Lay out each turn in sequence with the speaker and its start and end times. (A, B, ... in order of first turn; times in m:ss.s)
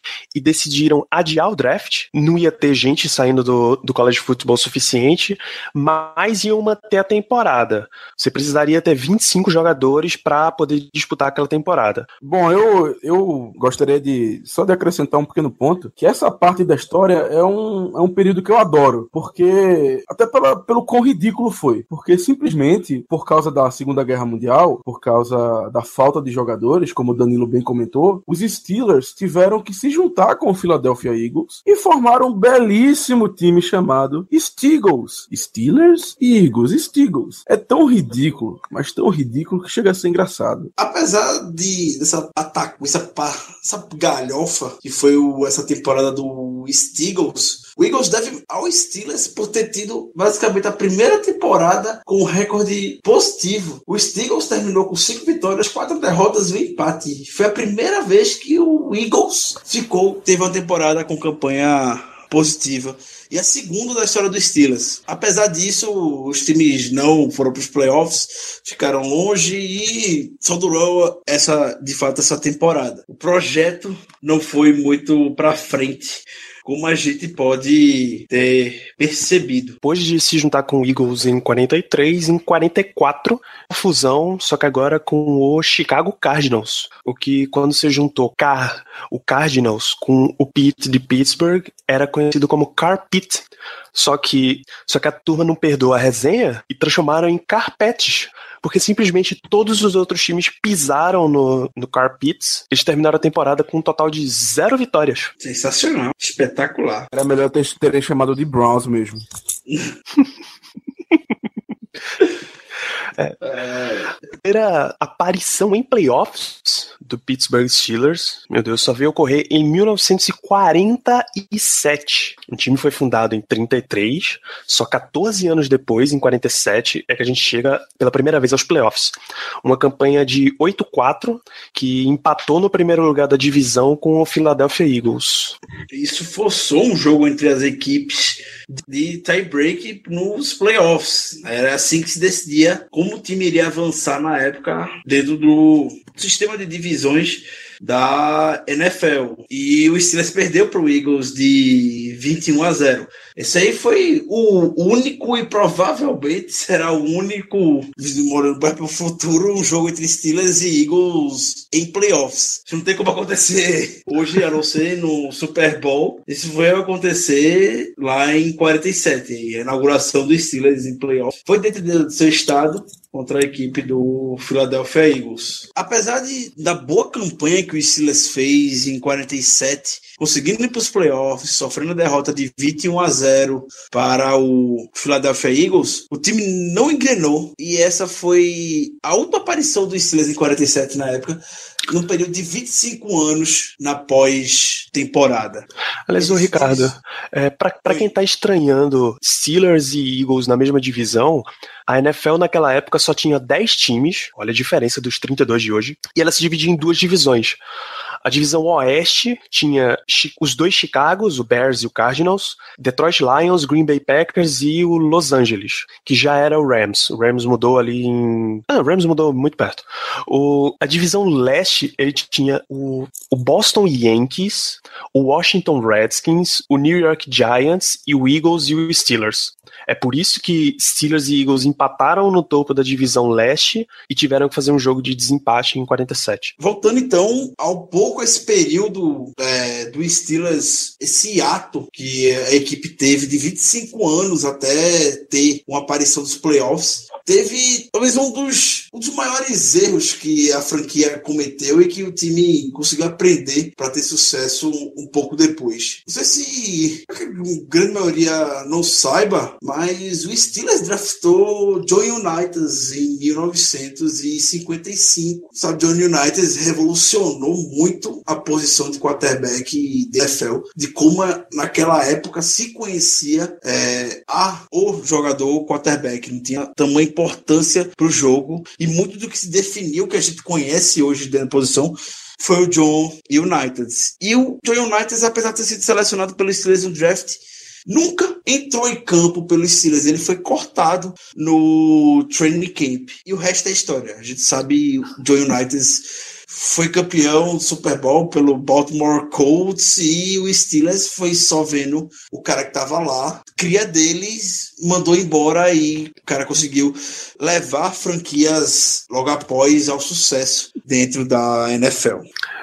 0:00.3-0:12.1 A
0:12.2-0:40.7 B
0:40.8-1:19.8 C
1:19.8-1:45.3 A
1:45.4-1:47.1 C
1:47.1-1:49.2 B
1:53.4-1:54.1 C
1:54.4-2:15.6 A
2:15.9-3:15.7 C
3:16.1-3:27.6 A
3:16.2-3:16.9 C
3:28.2-3:56.5 A
3:56.6-5:12.3 C